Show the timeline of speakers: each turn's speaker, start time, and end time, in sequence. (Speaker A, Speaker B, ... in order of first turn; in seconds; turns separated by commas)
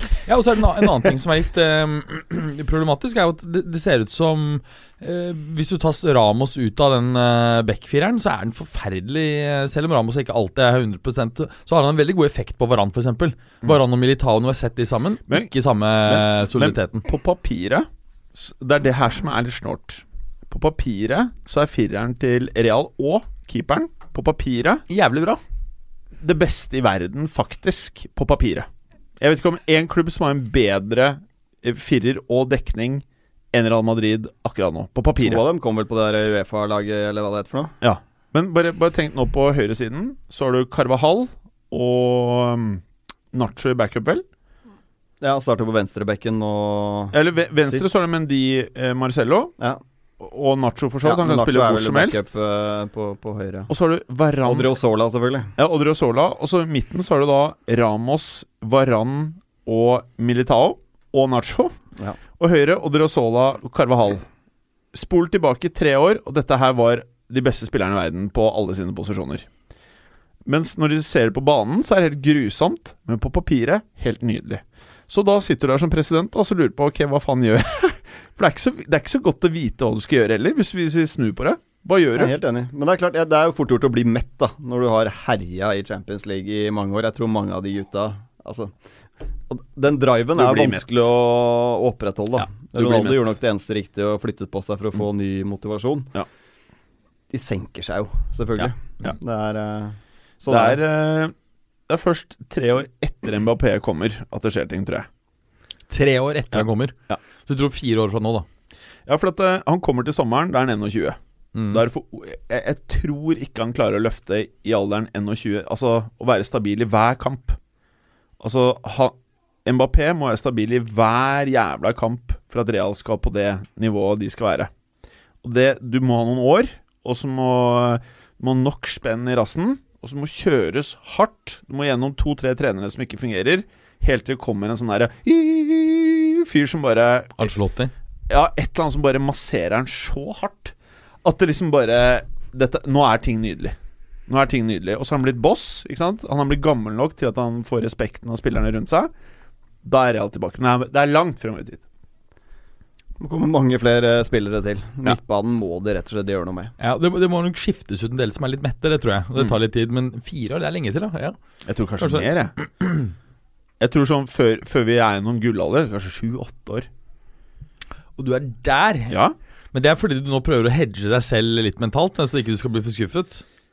Speaker A: 0.3-17.0, Speaker B: 16.0-24.8, Speaker A: 24.9-25.4, Speaker B: 26.2-28.7, Speaker B: 29.2-35.4, Speaker C: 35.2-37.7, Speaker B: 37.8-44.2, Speaker C: 45.2-47.2, Speaker B: 47.1-49.5, Speaker B: 50.2-52.3, Speaker C: 51.0-53.7, Speaker B: 53.7-54.7, Speaker C: 54.4-55.5, Speaker B: 55.6-61.7, Speaker B: 62.4-64.2, Speaker B: 64.9-69.5, Speaker B: 70.4-82.3, Speaker C: 82.2-88.7, Speaker C: 89.5-96.1, Speaker B: 90.3-91.0, Speaker B: 92.5-93.3, Speaker C: 97.3-100.8, Speaker B: 98.6-99.1, Speaker B: 100.5-101.3, Speaker B: 101.9-105.1, Speaker A: 105.9-108.5, Speaker B: 106.5-107.2, Speaker B: 109.0-111.2, Speaker A: 111.5-111.8, Speaker B: 111.7-117.6, Speaker B: 118.4-124.7, Speaker B: 125.4-137.5, Speaker A: 137.4-137.9, Speaker B: 138.3-143.8, Speaker B: 144.3-149.1, Speaker B: 149.8-151.8, Speaker C: 153.2-156.7, Speaker A: 156.8-161.3, Speaker B: 161.7-162.5, Speaker A: 162.0-163.1, Speaker B: 163.8-166.9, Speaker A: 168.2-169.2, Speaker B: 169.1-169.3, Speaker A: 169.7-173.4